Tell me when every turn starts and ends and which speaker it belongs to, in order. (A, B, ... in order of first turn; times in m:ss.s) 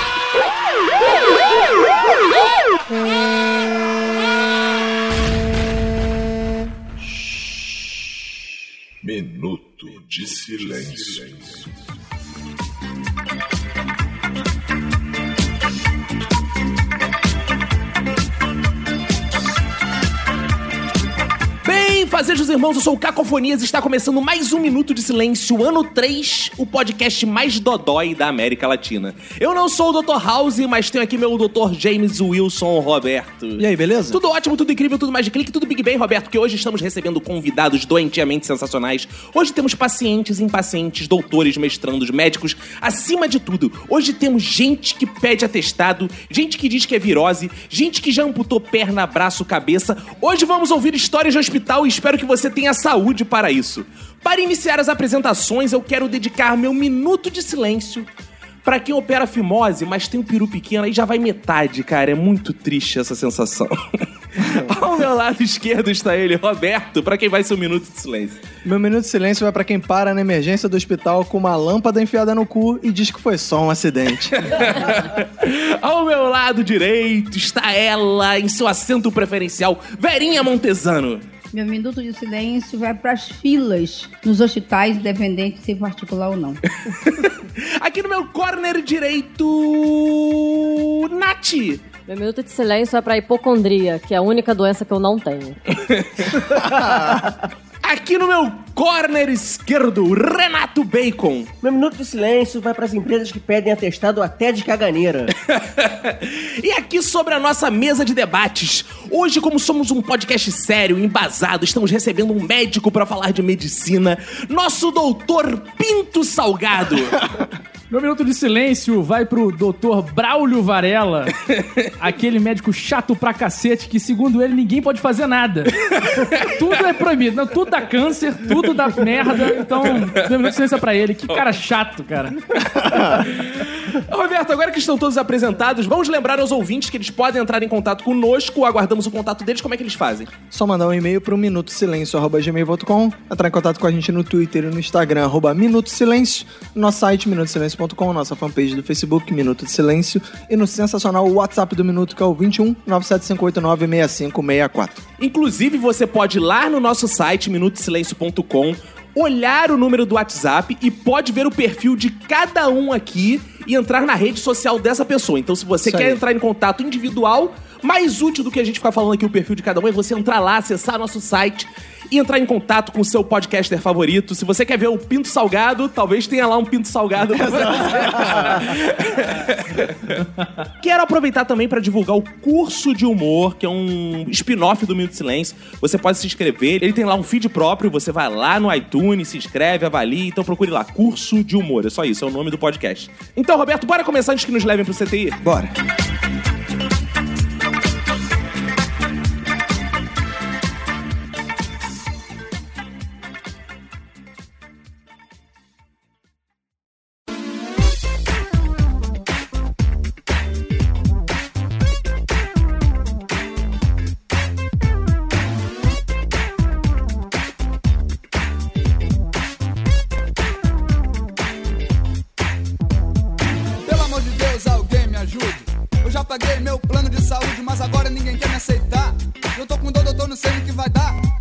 0:09.0-0:11.8 A
0:21.6-0:58.1 B
0:33.6-0:34.2 C
0:58.6-1:03.8 B
1:04.4-1:04.7 C
1:04.5-1:08.4 B
1:08.6-1:14.5 C
1:14.3-1:21.2 B
1:21.5-1:26.6 D
1:26.8-1:31.8 B
1:32.1-1:35.6 E
1:35.8-1:36.3 B
1:36.5-1:37.3 F
1:36.8-1:37.2 C
1:37.8-1:41.5 B
1:41.6-1:45.3 F
1:45.4-1:57.2 B
1:57.9-2:01.3 G
2:01.5-2:01.9 B
2:02.0-2:05.7 G
2:05.9-2:06.5 B
2:06.3-2:12.4 G
2:12.6-2:13.2 C
2:12.9-2:20.3 B
2:20.5-2:35.0 C
2:35.2-3:00.2 B
2:45.8-2:46.2 C
2:57.3-2:58.7 C
3:00.8-3:15.4 B
3:15.4-3:15.7 C
3:43.8-3:51.2 H